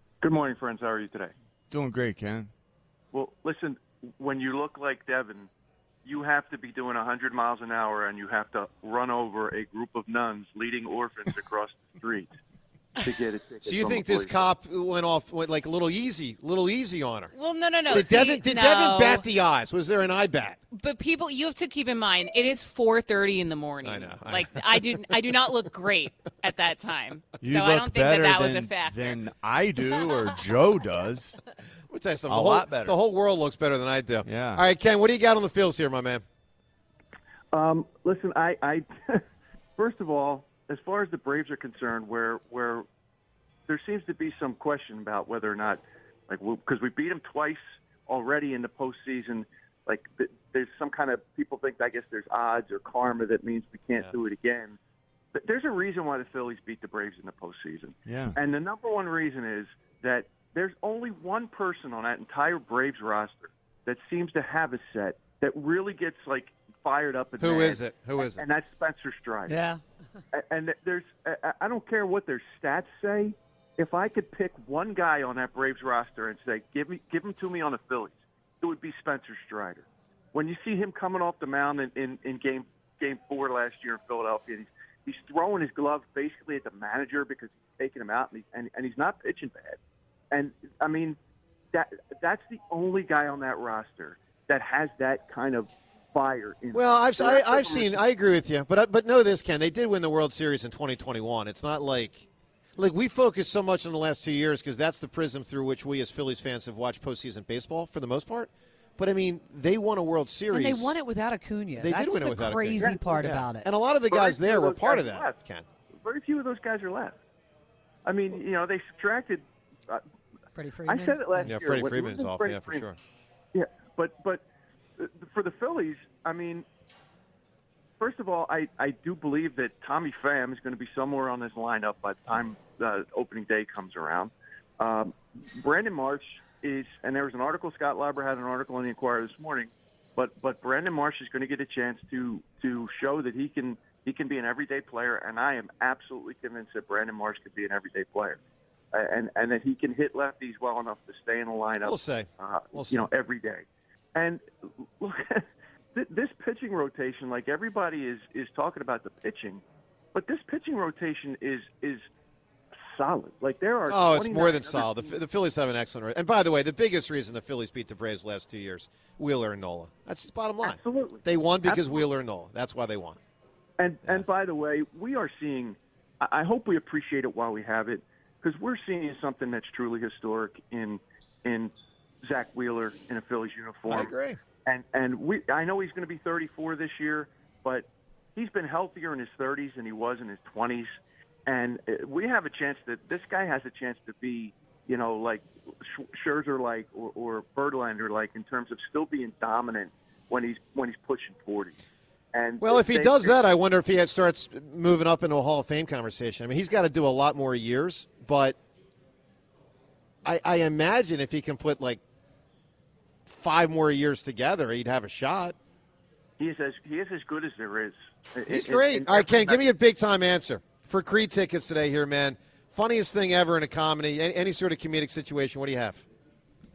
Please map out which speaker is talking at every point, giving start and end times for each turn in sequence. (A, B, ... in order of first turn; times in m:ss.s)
0:00.2-0:01.3 A
0:01.7-0:02.5 B
0:03.1-0:05.5 A
0:06.0-0:12.3 A
0:13.0-0:14.4 A
0:13.7-0:17.3 C
0:17.3-0:19.2 D
0:17.9-0:20.6 C
0:20.7-0:29.2 D
0:23.8-0:24.8 C
0:27.4-0:31.4 B
0:31.9-0:36.2 C
0:32.3-0:33.0 B
0:34.2-0:34.6 B
0:37.5-0:39.2 A
0:39.8-0:42.9 A
0:43.7-0:54.8 A
0:55.3-1:09.6 A
0:58.1-0:58.4 B
1:07.4-1:08.4 C
1:09.5-1:09.8 E
1:10.3-1:29.8 A
1:30.3-1:31.2 A
1:31.7-1:38.0 A
1:36.7-1:51.0 C
1:50.5-1:53.7 E
1:51.8-1:55.7 C
1:52.8-1:53.3 A
1:54.1-1:55.4 A
1:56.0-1:57.2 A
1:58.0-2:00.0 A
2:00.6-2:01.5 E
2:00.9-2:02.9 A
2:01.4-2:03.0 C
2:03.5-2:04.4 A
2:05.0-2:06.7 A
2:08.0-2:28.4 A
2:28.9-2:34.4 A
2:31.8-2:33.1 C
2:35.0-2:39.6 A
2:40.1-2:42.1 A
2:42.8-2:45.2 A
2:43.9-2:53.2 C
2:50.6-2:52.0 A
2:53.8-3:01.7 A
3:02.2-3:04.1 A
3:03.9-3:04.4 C
3:04.6-3:10.9 A
3:11.5-3:21.8 A
3:22.3-3:23.4 A
3:22.6-3:28.6 C
3:30.2-3:32.0 C
3:33.3-3:35.6 C
3:36.4-3:39.7 A
3:38.5-3:46.0 C